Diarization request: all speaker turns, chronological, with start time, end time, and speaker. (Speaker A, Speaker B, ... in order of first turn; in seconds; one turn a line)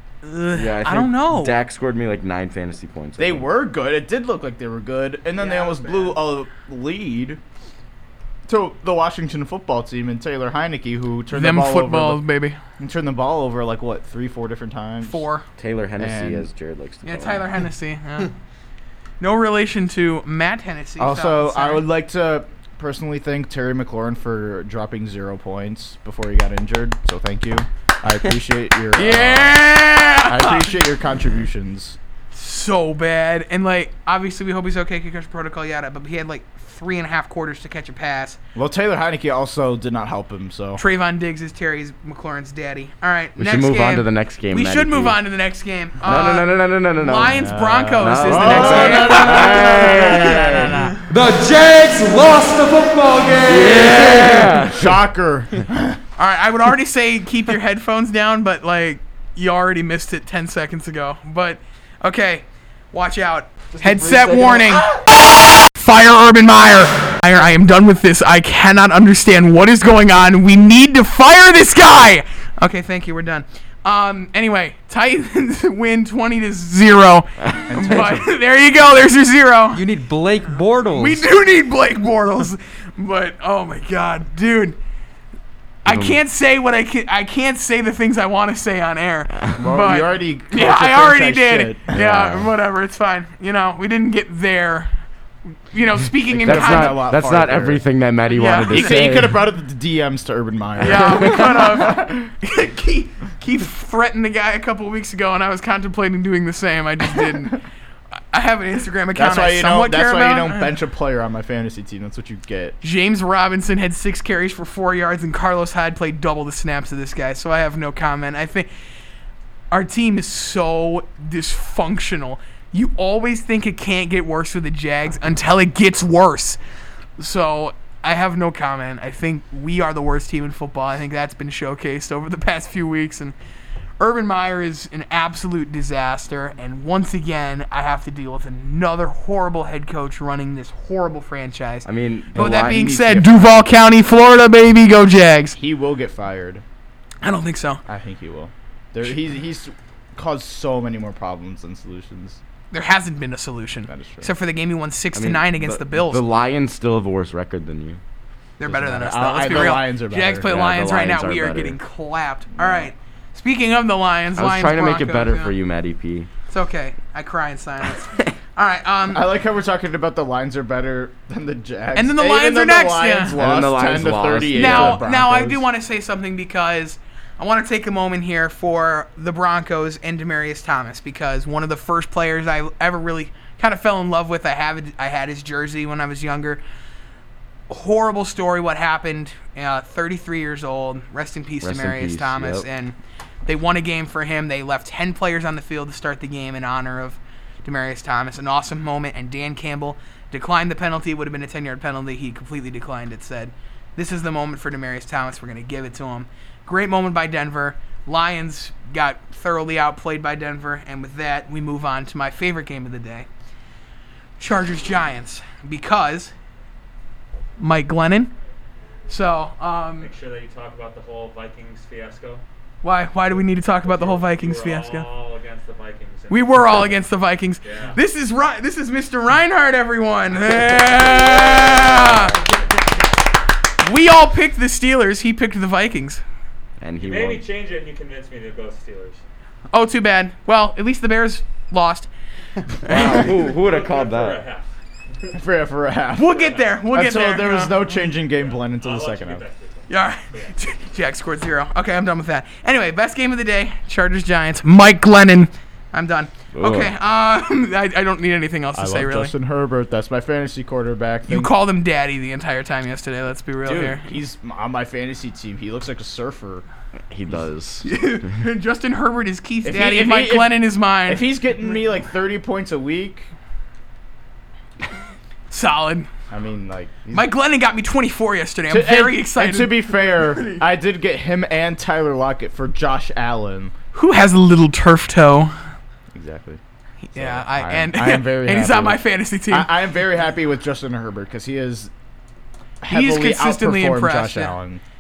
Speaker A: 0.2-1.6
Speaker B: 0.5-3.5
Speaker C: 3.2-7.4
Speaker A: 5.4-6.2
Speaker C: 8.5-12.2
Speaker A: 11.3-12.6
Speaker C: 12.8-15.3
Speaker A: 15.0-15.4
Speaker B: 15.6-17.5
Speaker C: 16.0-16.5
Speaker A: 17.0-18.3
Speaker A: 19.2-21.8
Speaker C: 21.0-32.0
Speaker A: 29.0-30.8
Speaker A: 32.3-38.4
Speaker C: 38.5-40.8
Speaker A: 40.8-51.0
Speaker B: 43.4-45.2
Speaker B: 46.0-47.4
Speaker C: 47.3-51.0
Speaker B: 48.0-50.7
Speaker D: 51.1-54.8
Speaker B: 53.4-55.0
Speaker C: 54.7-56.0
Speaker A: 56.2-65.0
Speaker C: 63.7-64.9
Speaker A: 65.6-79.8
Speaker C: 77.7-78.3
Speaker D: 79.7-81.3
Speaker A: 80.9-84.8
Speaker A: 85.8-94.9
Speaker B: 85.9-86.2
Speaker C: 89.6-92.0
Speaker B: 91.9-92.5
Speaker A: 95.7-97.0
Speaker C: 96.3-97.8
Speaker B: 96.4-99.4
Speaker A: 98.3-99.0
Speaker C: 98.7-102.3
Speaker A: 100.8-107.6
Speaker B: 100.8-101.5
Speaker A: 108.3-110.7
Speaker C: 109.2-112.8
Speaker A: 112.8-118.7
Speaker A: 119.7-126.6
Speaker A: 127.2-133.3
Speaker A: 134.0-145.6
Speaker B: 141.8-143.0
Speaker C: 142.3-143.6
Speaker C: 145.6-146.6
Speaker A: 147.2-147.8
Speaker C: 147.9-152.4
Speaker A: 152.7-156.2
Speaker C: 153.9-154.3
Speaker B: 155.2-158.0
Speaker A: 158.6-165.6
Speaker C: 158.7-160.6
Speaker B: 160.4-161.8
Speaker C: 162.6-162.9
Speaker B: 164.3-166.3
Speaker A: 166.5-169.3
Speaker C: 169.1-175.7
Speaker A: 171.9-173.4
Speaker B: 173.3-175.0
Speaker A: 174.5-186.6
Speaker A: 187.7-213.3
Speaker B: 191.6-192.7
Speaker A: 214.4-216.3
Speaker A: 217.6-218.3
Speaker A: 219.1-220.1
Speaker E: 220.0-222.4
Speaker A: 222.8-225.1
Speaker E: 223.3-226.9
Speaker A: 226.3-232.4
Speaker E: 227.6-228.0
Speaker E: 231.2-232.6
Speaker A: 233.8-236.2
Speaker B: 236.8-237.4
Speaker E: 237.0-239.2
Speaker A: 239.7-242.1
Speaker A: 242.8-243.2
Speaker B: 242.9-244.4
Speaker E: 242.9-244.7
Speaker C: 245.3-249.4
Speaker A: 246.2-247.8
Speaker E: 246.3-246.7
Speaker E: 248.2-250.6
Speaker A: 249.9-259.3
Speaker B: 256.5-256.9
Speaker C: 258.7-261.5
Speaker A: 261.3-264.1
Speaker C: 263.7-266.6
Speaker B: 267.1-268.3
Speaker A: 267.8-271.2
Speaker C: 269.6-273.3
Speaker A: 275.5-276.1
Speaker C: 276.3-277.3
Speaker A: 277.1-280.6
Speaker C: 278.7-283.7
Speaker A: 283.9-285.6
Speaker C: 286.1-286.6
Speaker A: 287.0-289.7
Speaker C: 287.1-291.9
Speaker C: 292.8-294.8
Speaker A: 292.9-294.6